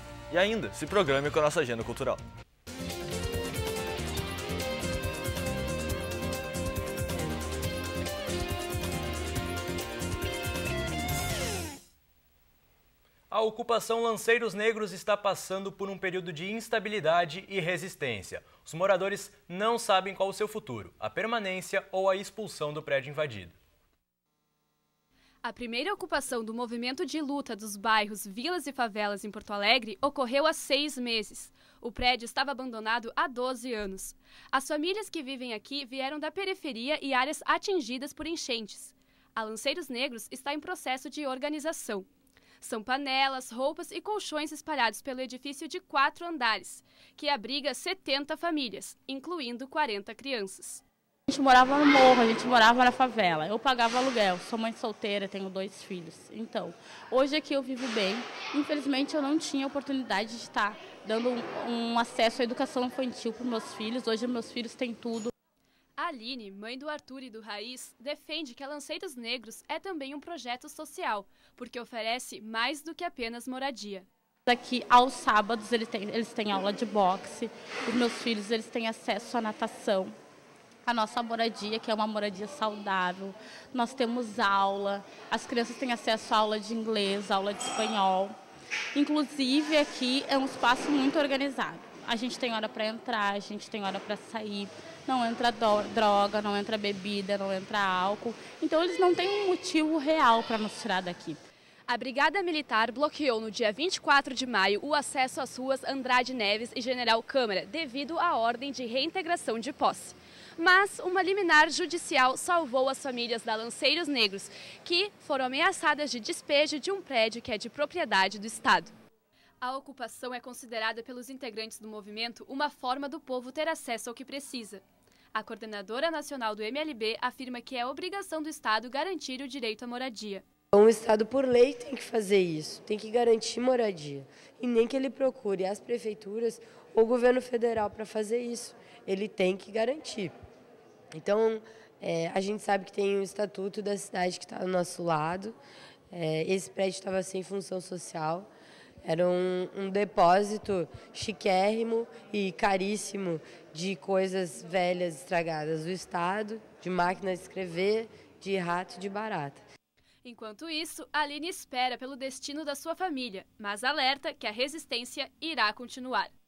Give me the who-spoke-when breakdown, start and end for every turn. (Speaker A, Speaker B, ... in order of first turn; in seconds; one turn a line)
Speaker A: 0.3-2.2
Speaker B: 13.3-23.5
Speaker C: 25.4-42.1
Speaker C: 42.6-50.8
Speaker D: 51.3-65.3
Speaker C: 66.0-74.0
Speaker D: 74.5-80.1
Speaker D: 80.8-88.3
Speaker D: 88.9-101.4
Speaker C: 101.9-118.9
Speaker C: 119.6-124.8
Speaker C: 125.3-130.4
Speaker E: 130.7-140.3
Speaker E: 141.1-145.5
Speaker E: 146.1-148.5
Speaker E: 149.0-159.6
Speaker C: 160.2-166.3